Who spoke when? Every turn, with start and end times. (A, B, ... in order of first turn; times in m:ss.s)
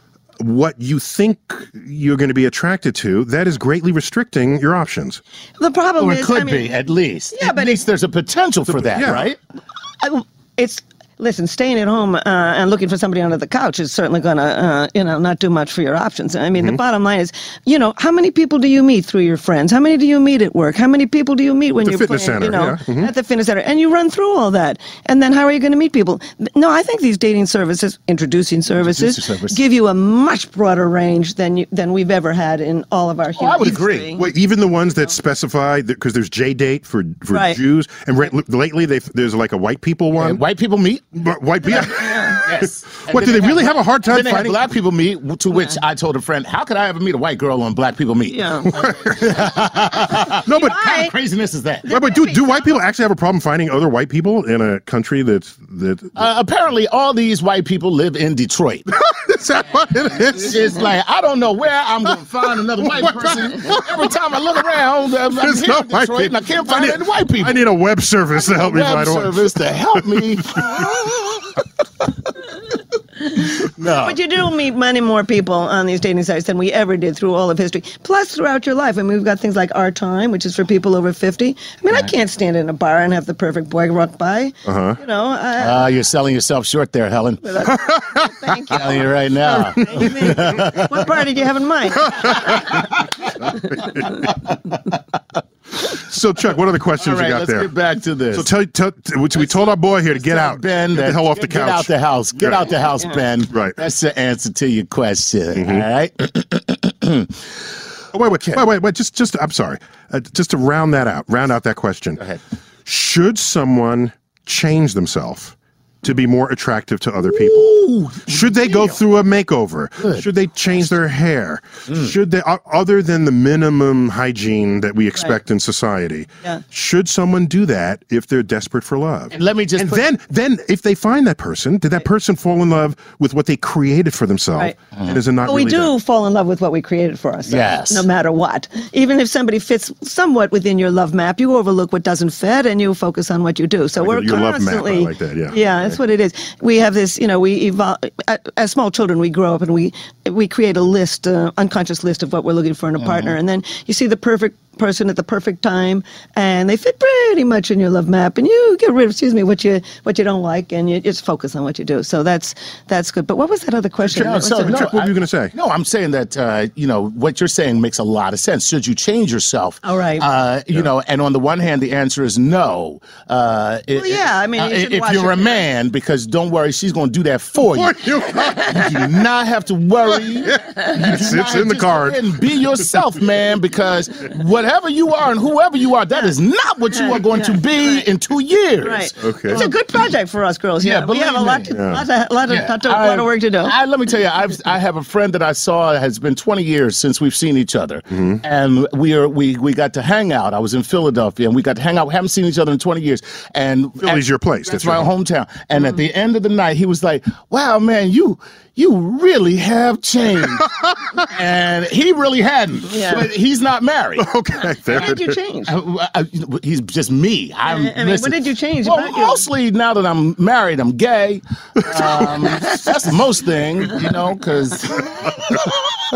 0:00.4-0:05.2 A
0:05.6-0:06.7 B
0:06.0-0:09.4 C
0:07.3-0:07.8 B
0:08.7-0:09.3 A
0:10.0-0:34.2 B
0:21.8-0:23.1 A
0:28.8-0:29.6 C
0:33.4-0:34.1 C
0:34.2-0:40.4 A
0:37.3-0:37.6 B
0:40.2-0:41.1 C
0:41.1-0:44.6 A
0:41.7-0:51.9 C
0:41.8-0:42.4 B
0:48.3-0:48.8 B
0:48.7-0:49.4 A
0:50.4-0:50.8 A
0:50.5-0:51.1 B
0:51.8-0:52.7 B
0:51.9-0:56.1 A
0:56.2-0:58.9 C
0:58.9-1:00.8 A
1:00.1-1:07.6 C
1:02.8-1:04.1 A
1:05.3-1:10.8 A
1:08.3-1:11.6 C
1:13.6-1:14.2 C
1:14.0-1:25.9 B
1:24.6-1:25.0 A
1:25.6-1:27.7 C
1:27.4-1:32.4 B
1:27.8-1:28.2 A
1:28.6-1:31.0 C
1:30.0-1:30.4 A
1:32.1-1:32.8 A
1:32.5-1:32.8 C
1:33.4-1:34.3 A
1:35.8-1:37.7 A
1:37.0-1:38.5 C
1:38.3-1:42.7 A
1:39.3-1:47.4 C
1:43.5-1:43.8 A
1:45.5-1:45.8 A
1:48.1-1:52.2 A
1:48.3-1:48.7 C
1:52.8-1:57.7 A
1:57.2-1:59.0 C
1:58.2-2:15.9 A
2:00.0-2:01.0 C
2:01.9-2:02.2 C
2:09.3-2:10.1 C
2:15.4-2:44.9 B
2:17.5-2:18.1 C
2:24.0-2:26.0 A
2:33.0-2:33.4 C
2:44.1-2:45.5 A
2:44.1-3:09.8 C
2:49.8-2:50.2 B
2:53.9-2:55.6 B
2:57.7-2:59.0 A
3:00.5-3:02.3 A
3:06.9-3:08.0 B
3:08.8-3:13.7 B
3:09.2-3:09.6 A
3:10.8-3:11.7 C
3:11.7-3:12.0 A
3:12.5-3:30.7 C
3:24.0-3:25.1 A
3:31.2-3:34.3 C
3:32.9-3:33.3 B
3:34.2-3:35.3 A
3:34.8-3:35.7 B
3:35.7-3:45.8 C
3:37.6-3:39.4 B
3:41.8-3:42.7 A